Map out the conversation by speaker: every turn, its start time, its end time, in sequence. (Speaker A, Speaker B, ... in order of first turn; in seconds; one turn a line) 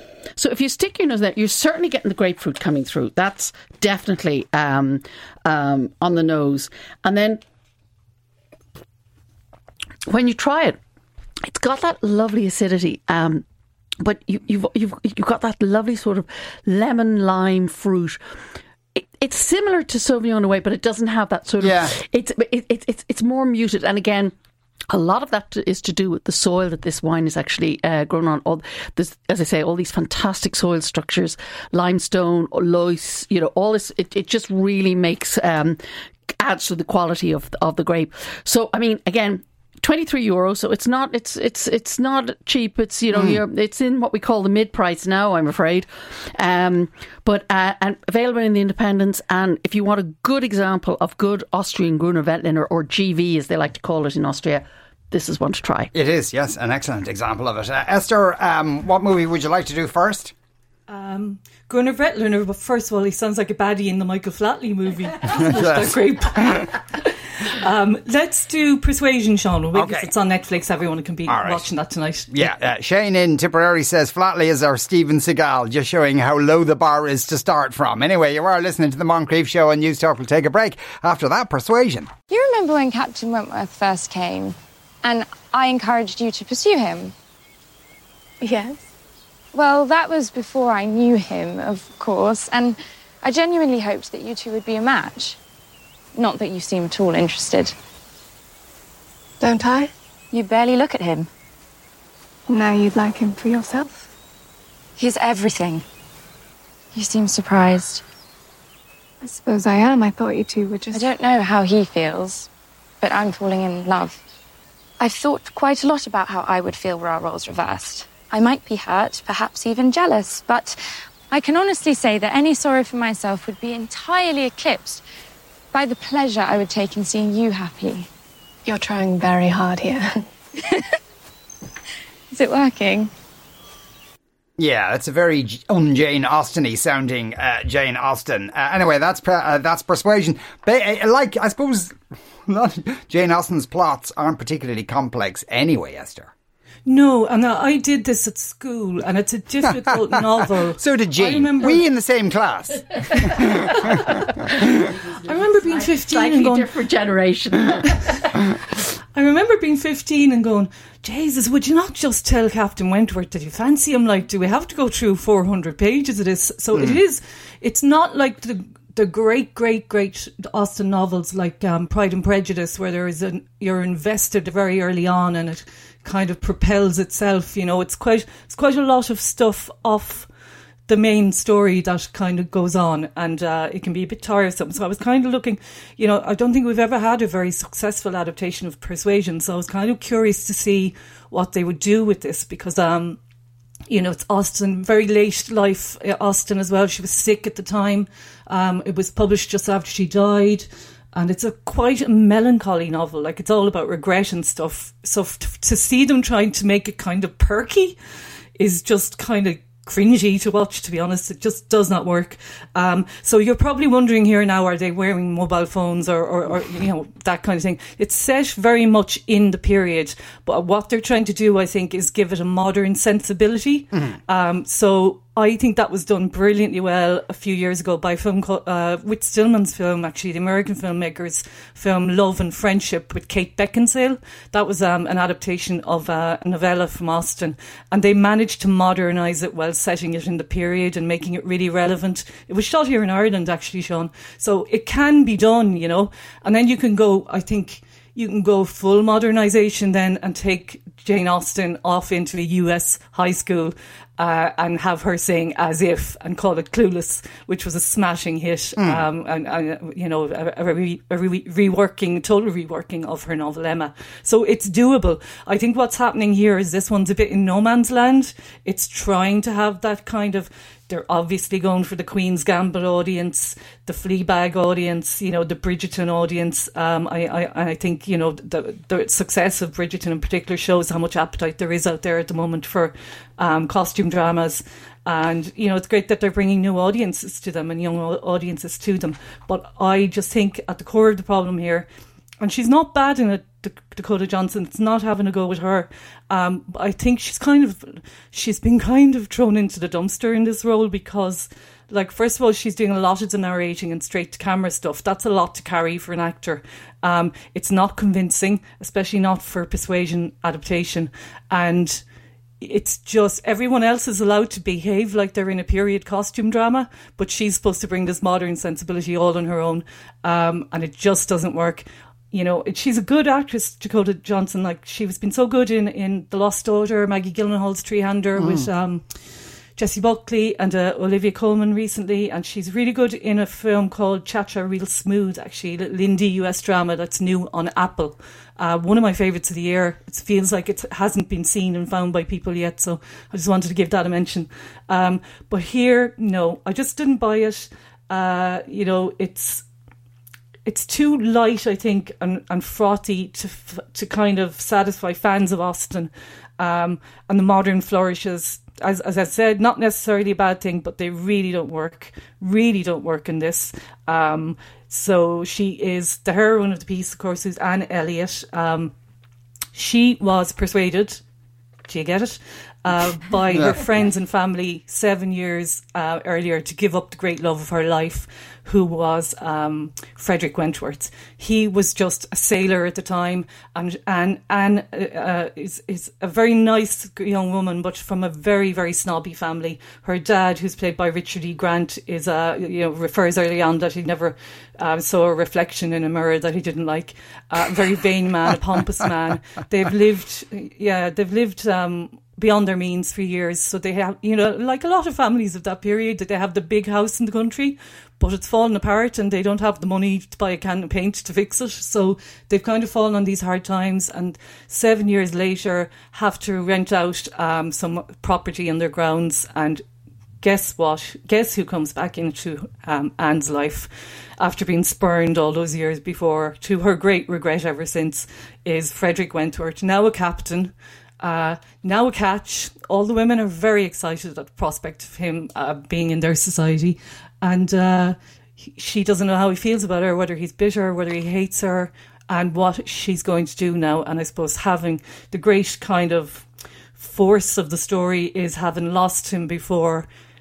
Speaker A: 0.3-7.4
Speaker A: 10.1-10.8
Speaker A: 11.4-13.4
Speaker A: 14.0-18.2
Speaker A: 18.9-24.3
Speaker B: 21.6-21.9
Speaker A: 24.9-35.8
Speaker A: 36.4-55.9
Speaker B: 43.1-43.4
Speaker B: 55.9-60.3
Speaker C: 60.9-72.5
Speaker B: 65.5-66.7
Speaker B: 69.7-70.1
Speaker B: 71.3-71.7
Speaker B: 72.3-82.1
Speaker D: 82.3-87.1
Speaker E: 88.4-88.8
Speaker D: 89.5-95.4
Speaker D: 96.1-97.7
Speaker E: 99.4-99.9
Speaker D: 100.3-101.3
Speaker E: 102.5-104.1
Speaker D: 105.0-105.8
Speaker D: 106.9-108.0
Speaker E: 109.2-111.1
Speaker D: 110.9-112.5
Speaker D: 113.0-114.2
Speaker D: 115.0-120.8
Speaker D: 121.3-125.0
Speaker D: 125.7-128.1
Speaker E: 128.7-130.2
Speaker D: 132.3-133.1
Speaker B: 134.6-141.9
Speaker B: 142.5-146.3
Speaker C: 146.8-151.8
Speaker B: 150.8-154.6
Speaker A: 154.9-158.3
Speaker C: 155.2-156.7
Speaker C: 159.1-180.3
Speaker C: 180.9-193.2
Speaker C: 193.9-208.0
Speaker C: 208.6-291.9
Speaker B: 258.8-259.0
Speaker C: 292.4-312.0
Speaker C: 312.6-329.1
Speaker B: 328.4-328.7
Speaker C: 329.8-349.6
Speaker C: 350.6-368.9
Speaker C: 369.7-371.2
Speaker C: 371.9-419.8
Speaker B: 373.5-373.9
Speaker C: 420.4-438.2
Speaker C: 438.7-446.4
Speaker C: 447.0-450.1